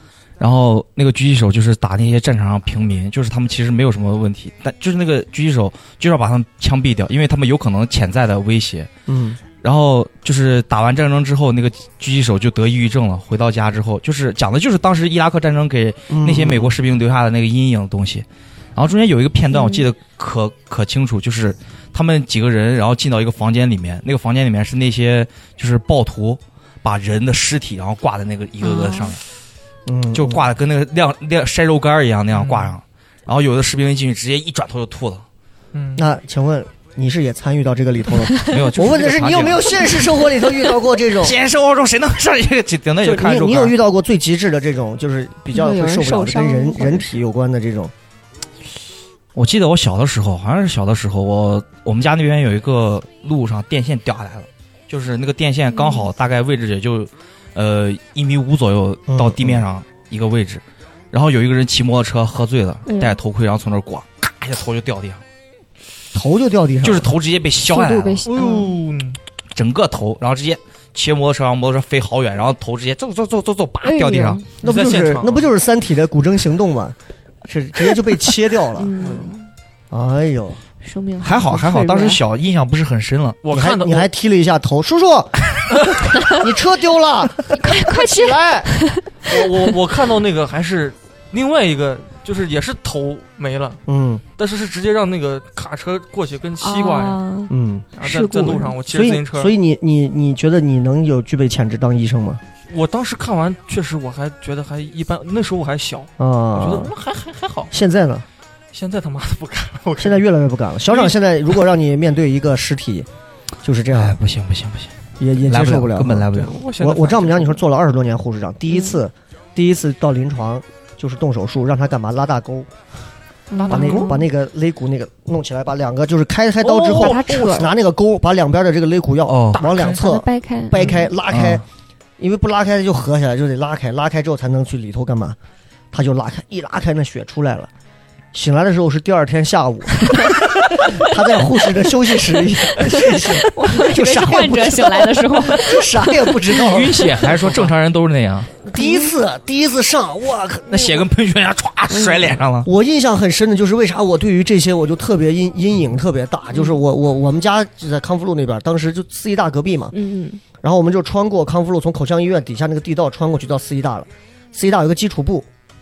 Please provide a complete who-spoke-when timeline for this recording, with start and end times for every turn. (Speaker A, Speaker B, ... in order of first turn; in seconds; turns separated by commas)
Speaker A: 0.4-8.9, Speaker B: 9.1-9.4, Speaker A: 9.6-29.2, Speaker B: 16.1-16.7, Speaker C: 19.5-19.9, Speaker C: 28.6-29.2, Speaker B: 29.9-30.5, Speaker A: 30.1-35.2, Speaker D: 32.3-32.8, Speaker D: 35.7-36.1, Speaker B: 36.0-41.4, Speaker A: 38.5-39.7, Speaker A: 41.2-43.7, Speaker B: 43.0-47.9, Speaker C: 45.5-47.2, Speaker A: 49.4-65.2, Speaker C: 55.7-56.1, Speaker B: 59.1-59.7, Speaker C: 62.9-63.2, Speaker B: 66.1-67.2, Speaker A: 66.8-68.2, Speaker C: 67.6-68.7, Speaker D: 68.2-69.2, Speaker A: 69.5-74.4, Speaker C: 73.8-74.5, Speaker D: 74.6-75.5, Speaker B: 74.6-78.9, Speaker C: 78.8-79.5, Speaker D: 79.0-79.3, Speaker B: 79.9-80.6, Speaker C: 80.8-82.2, Speaker A: 81.2-83.4, Speaker D: 83.4-84.1, Speaker B: 83.5-85.6, Speaker D: 85.7-86.0, Speaker B: 86.2-88.7, Speaker C: 87.5-89.4, Speaker D: 89.3-93.8, Speaker B: 93.9-94.2, Speaker D: 94.4-97.2, Speaker C: 96.6-98.8, Speaker B: 97.5-97.9, Speaker D: 98.0-99.5, Speaker B: 98.9-102.4, Speaker D: 102.7-107.7, Speaker B: 106.2-106.9, Speaker B: 107.7-108.2, Speaker D: 108.7-110.3, Speaker B: 110.0-113.1, Speaker D: 110.9-111.2, Speaker B: 113.6-114.2, Speaker A: 113.9-114.9, Speaker B: 115.2-122.7, Speaker A: 115.5-116.5, Speaker D: 116.3-117.6, Speaker C: 123.5-124.2, Speaker D: 123.6-124.1, Speaker B: 123.7-131.6, Speaker D: 126.6-127.6, Speaker C: 126.9-127.7, Speaker A: 129.3-129.6, Speaker D: 129.6-130.0, Speaker C: 129.8-131.1, Speaker A: 131.3-131.6, Speaker B: 132.2-135.4, Speaker B: 135.9-137.7, Speaker B: 138.3-147.1, Speaker C: 142.9-146.2, Speaker A: 146.5-148.6, Speaker D: 147.3-147.7, Speaker B: 148.7-151.1, Speaker C: 148.7-149.1, Speaker A: 150.7-152.7, Speaker C: 151.9-152.3, Speaker B: 152.6-159.9, Speaker C: 159.9-160.4, Speaker B: 160.6-165.5